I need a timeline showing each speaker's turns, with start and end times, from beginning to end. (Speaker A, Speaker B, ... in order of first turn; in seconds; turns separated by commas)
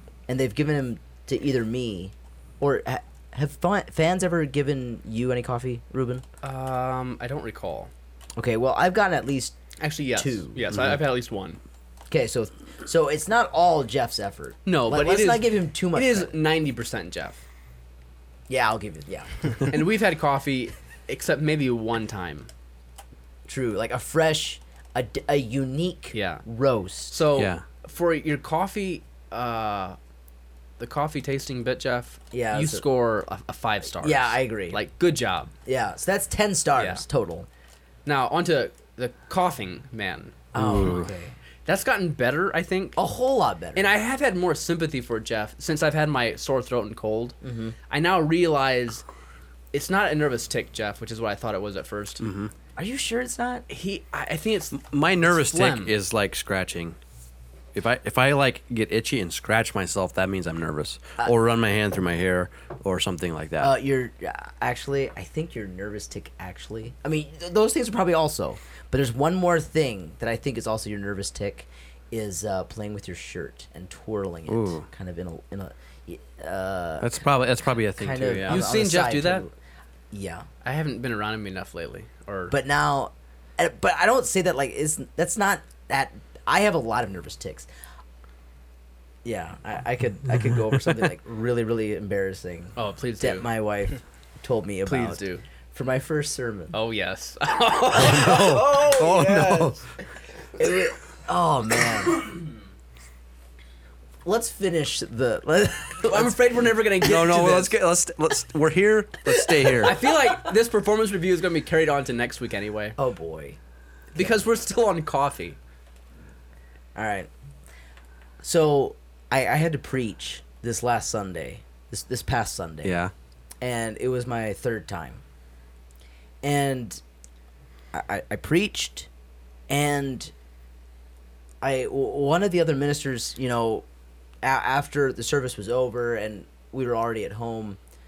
Speaker A: 0.3-6.2, Speaker B: 6.4-7.9, Speaker A: 8.4-9.6, Speaker B: 9.8-11.6, Speaker A: 10.1-10.7, Speaker A: 12.1-16.4, Speaker B: 14.7-17.4, Speaker A: 18.5-19.6, Speaker B: 19.7-22.5, Speaker A: 23.5-27.2, Speaker B: 26.1-26.4, Speaker B: 27.1-30.0, Speaker C: 27.4-27.6, Speaker B: 30.8-35.5, Speaker A: 32.3-32.9, Speaker A: 34.0-34.8, Speaker A: 35.7-37.5, Speaker B: 36.8-37.0, Speaker B: 38.0-40.4, Speaker A: 40.5-41.3, Speaker C: 40.5-41.1, Speaker B: 41.7-43.0, Speaker A: 43.0-43.9, Speaker B: 43.8-47.4, Speaker A: 47.4-47.8, Speaker B: 47.9-49.0, Speaker B: 49.7-52.2, Speaker C: 52.2-52.5, Speaker A: 52.8-53.6, Speaker B: 53.7-55.9, Speaker C: 54.7-57.0, Speaker C: 57.8-63.7, Speaker A: 63.6-77.2, Speaker C: 74.5-74.8, Speaker C: 77.0-78.7, Speaker A: 77.9-79.5, Speaker B: 78.5-79.5, Speaker A: 80.1-80.5, Speaker B: 80.6-82.5, Speaker A: 82.5-87.7, Speaker A: 89.2-95.2, Speaker B: 92.8-93.5, Speaker B: 94.9-95.4, Speaker A: 95.7-96.8, Speaker B: 96.7-98.6, Speaker C: 97.9-99.8, Speaker A: 98.0-99.8, Speaker A: 100.6-102.4, Speaker A: 104.2-107.0, Speaker B: 106.1-107.7, Speaker C: 107.0-110.0, Speaker A: 109.4-110.0, Speaker B: 109.8-113.0, Speaker A: 113.0-113.6, Speaker B: 114.2-115.6, Speaker A: 117.0-117.3, Speaker A: 118.4-123.0, Speaker C: 122.8-123.1, Speaker A: 123.6-125.2, Speaker A: 126.4-127.0, Speaker A: 127.9-129.1, Speaker A: 129.7-130.3, Speaker A: 131.6-133.8, Speaker A: 134.4-137.8